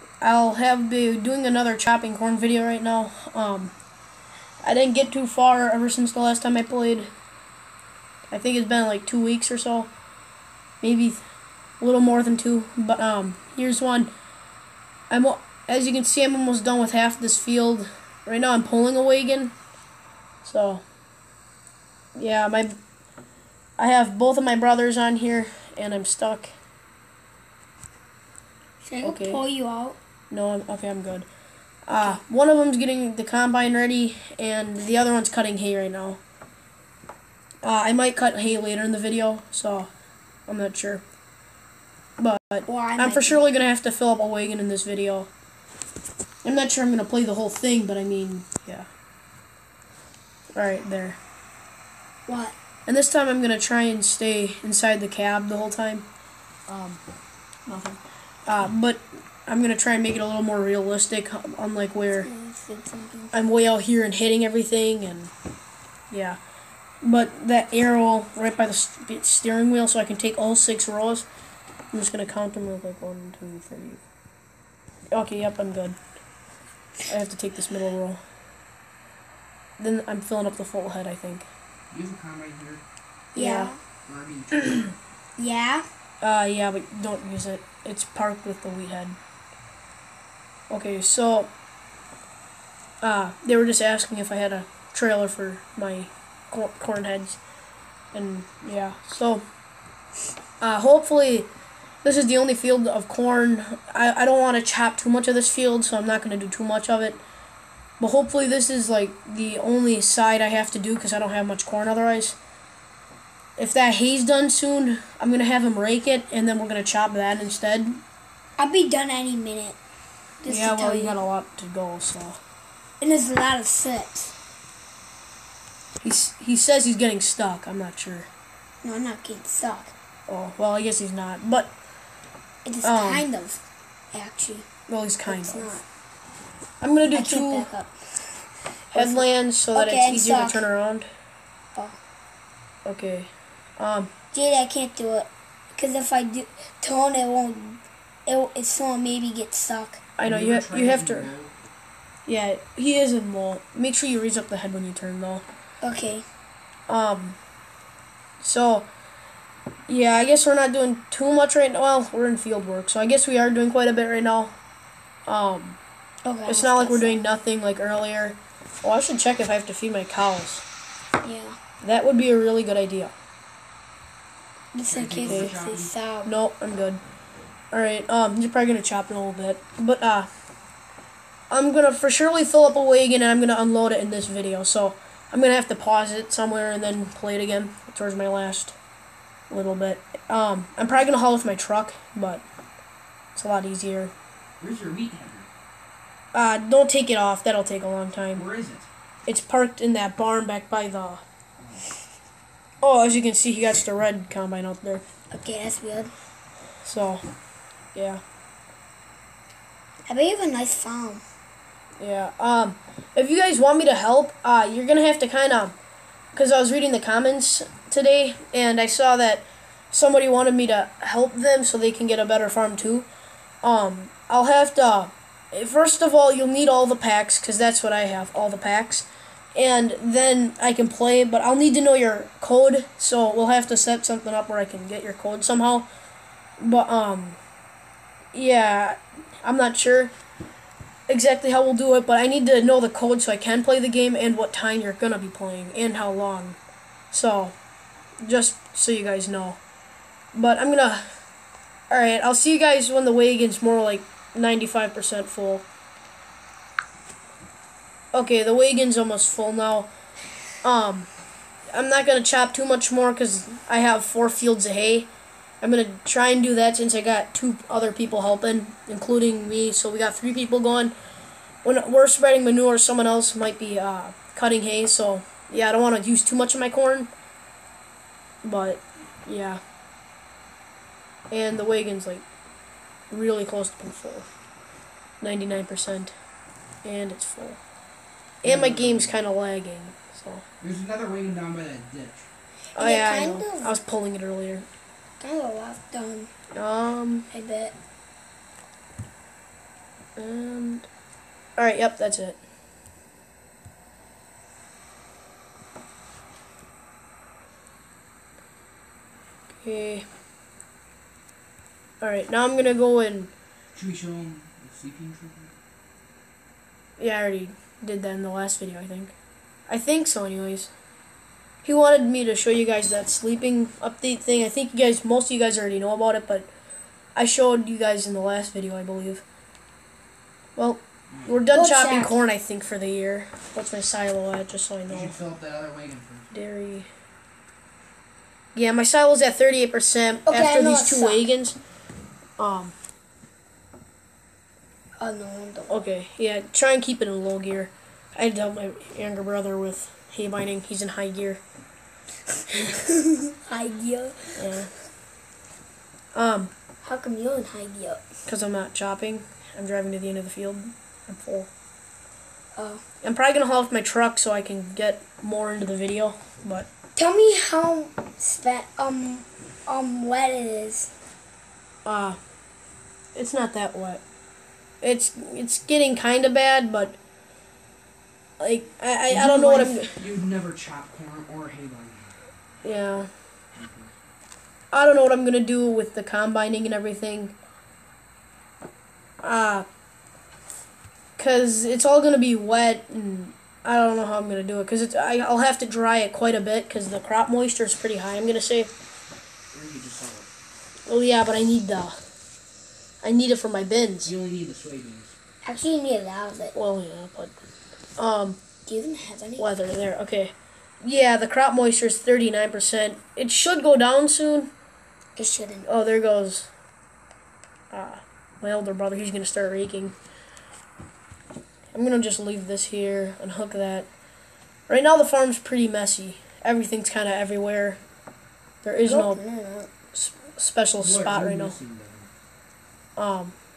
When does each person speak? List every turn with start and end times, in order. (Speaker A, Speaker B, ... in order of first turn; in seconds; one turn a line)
Speaker A: 0.2-3.7
Speaker A: 4.6-7.1
Speaker A: 8.3-9.9
Speaker A: 10.8-11.2
Speaker A: 11.8-14.1
Speaker A: 15.1-19.5
Speaker A: 20.4-20.8
Speaker A: 22.1-22.8
Speaker A: 23.8-26.5
Speaker B: 28.8-30.0
Speaker A: 29.0-29.4
Speaker A: 30.3-31.3
Speaker A: 31.9-36.2
Speaker A: 37.6-39.9
Speaker A: 40.5-41.0
Speaker A: 42.2-45.3
Speaker B: 42.6-43.5
Speaker A: 46.4-48.9
Speaker A: 50.5-51.2
Speaker B: 52.3-52.5
Speaker A: 52.9-56.1
Speaker A: 56.7-57.0
Speaker A: 57.6-62.3
Speaker B: 62.2-63.3
Speaker A: 63.3-65.3
Speaker A: 66.1-66.4
Speaker A: 67.0-71.3
Speaker A: 71.9-74.0
Speaker A: 75.1-76.0
Speaker A: 77.0-78.2
Speaker A: 79.8-81.5
Speaker C: 81.9-82.8
Speaker A: 83.3-83.7
Speaker B: 83.3-83.8
Speaker C: 84.0-84.9
Speaker B: 85.4-85.8
Speaker A: 86.2-89.2
Speaker A: 90.7-91.5
Speaker A: 93.0-97.4
Speaker A: 98.1-99.4
Speaker A: 100.6-101.5
Speaker A: 102.0-107.2
Speaker A: 108.0-112.4
Speaker A: 113.6-118.0
Speaker B: 118.6-119.8
Speaker B: 120.4-121.2
Speaker A: 120.5-122.4
Speaker B: 123.0-124.3
Speaker A: 126.0-128.3
Speaker B: 128.8-129.9
Speaker A: 130.3-131.7
Speaker B: 132.6-134.7
Speaker A: 132.8-133.3
Speaker A: 134.9-135.8
Speaker B: 135.2-135.8
Speaker A: 136.8-137.7
Speaker B: 137.1-140.7
Speaker A: 138.9-141.1
Speaker A: 142.8-144.1
Speaker B: 144.3-150.1
Speaker A: 150.2-151.3
Speaker C: 150.2-151.5
Speaker A: 152.2-155.4
Speaker B: 155.8-156.2
Speaker A: 156.9-157.4
Speaker A: 158.4-158.9
Speaker A: 159.9-164.6
Speaker A: 165.2-165.8
Speaker B: 166.2-167.2
Speaker A: 166.5-170.6
Speaker B: 171.2-171.6
Speaker A: 171.8-173.1
Speaker B: 174.7-176.3
Speaker C: 174.9-175.9
Speaker A: 175.2-175.5
Speaker A: 176.2-177.0
Speaker A: 177.7-180.3
Speaker A: 181.5-188.8
Speaker A: 189.5-192.4
Speaker A: 193.3-194.1
Speaker C: 194.6-195.5
Speaker A: 196.3-198.4
Speaker C: 198.3-198.9
Speaker A: 199.3-201.2
Speaker C: 201.6-201.9
Speaker A: 202.8-205.0
Speaker B: 205.3-206.1
Speaker A: 206.8-207.2
Speaker A: 207.9-208.2
Speaker B: 210.1-211.2
Speaker A: 212.0-215.8
Speaker A: 216.3-223.1
Speaker A: 223.6-235.9
Speaker A: 236.6-237.4
Speaker A: 238.3-240.1
Speaker A: 241.1-246.6
Speaker A: 247.1-247.5
Speaker A: 248.2-249.6
Speaker A: 250.3-251.1
Speaker A: 251.9-255.7
Speaker A: 258.1-259.9
Speaker A: 260.6-261.1
Speaker A: 261.7-265.1
Speaker A: 265.6-270.9
Speaker A: 271.6-277.1
Speaker A: 278.4-279.6
Speaker A: 281.3-282.2
Speaker A: 283.1-284.3
Speaker A: 285.2-286.1
Speaker A: 286.8-287.6
Speaker A: 288.4-290.4
Speaker C: 288.4-289.2
Speaker C: 290.6-292.3
Speaker B: 292.8-293.8
Speaker A: 292.8-294.6
Speaker B: 295.2-296.3
Speaker A: 296.5-297.3
Speaker B: 297.3-297.7
Speaker A: 300.2-300.9
Speaker A: 301.6-302.4
Speaker A: 309.6-310.1
Speaker A: 312.0-313.3
Speaker C: 313.7-315.5
Speaker A: 317.0-319.1
Speaker A: 319.7-320.7
Speaker A: 321.6-326.5
Speaker A: 327.1-329.2
Speaker A: 330.6-335.2
Speaker B: 331.5-332.2
Speaker C: 334.9-336.3
Speaker A: 336.3-336.9
Speaker A: 338.5-341.6
Speaker B: 340.2-341.2
Speaker A: 342.4-342.7
Speaker B: 345.0-345.9
Speaker A: 345.7-351.4
Speaker B: 352.7-354.6
Speaker A: 354.4-354.7
Speaker A: 356.1-356.5
Speaker B: 356.8-358.0
Speaker A: 358.3-361.5
Speaker B: 362.6-362.8
Speaker A: 363.0-366.7
Speaker B: 366.9-370.9
Speaker A: 371.9-372.2
Speaker A: 373.1-374.0
Speaker A: 374.8-377.0
Speaker A: 378.4-380.0
Speaker C: 379.1-382.2
Speaker A: 382.6-383.1
Speaker C: 383.5-383.9
Speaker A: 384.7-387.4
Speaker A: 389.2-389.7
Speaker A: 391.2-398.7
Speaker C: 399.5-400.3
Speaker A: 400.9-402.0
Speaker A: 403.0-404.1
Speaker C: 404.0-405.1
Speaker B: 405.4-406.5
Speaker A: 406.5-407.3
Speaker A: 408.0-408.4
Speaker B: 408.6-409.5
Speaker A: 409.4-414.5
Speaker B: 415.1-415.7
Speaker A: 415.7-416.5
Speaker A: 417.7-419.9
Speaker A: 421.7-423.9
Speaker A: 424.7-427.8
Speaker A: 428.6-429.2
Speaker B: 428.9-429.7
Speaker A: 429.9-431.6
Speaker C: 430.8-432.1
Speaker A: 433.0-433.3